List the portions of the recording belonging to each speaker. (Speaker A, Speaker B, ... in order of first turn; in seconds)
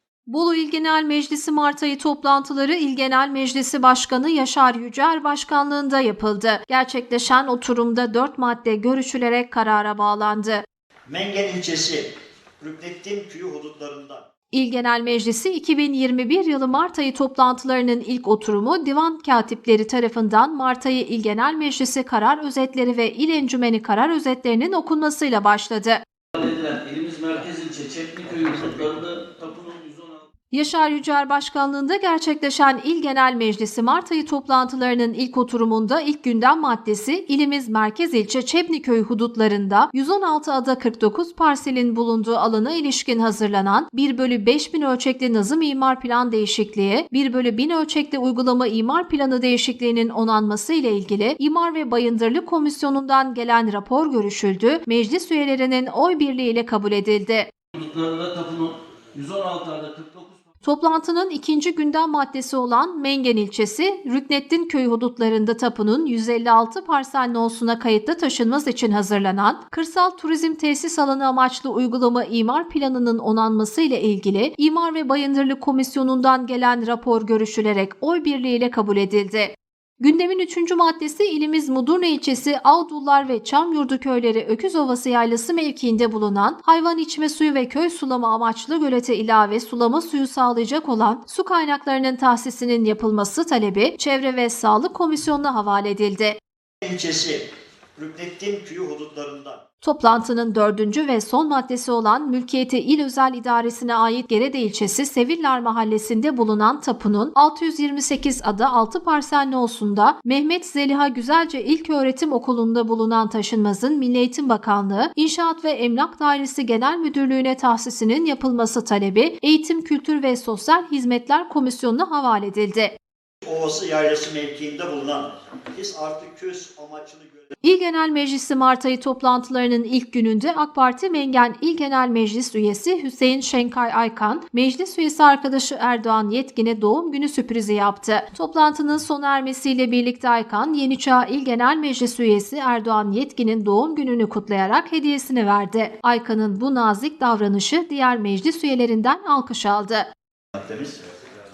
Speaker A: 0.3-10.6, 14.5-26.0, 30.5-57.5, 60.6-96.4, 99.8-123.0, 127.6-150.1
Speaker B: 11.1-14.2, 96.8-99.6, 123.4-127.4, 150.5-151.1
Speaker C: 26.3-30.2, 57.7-60.4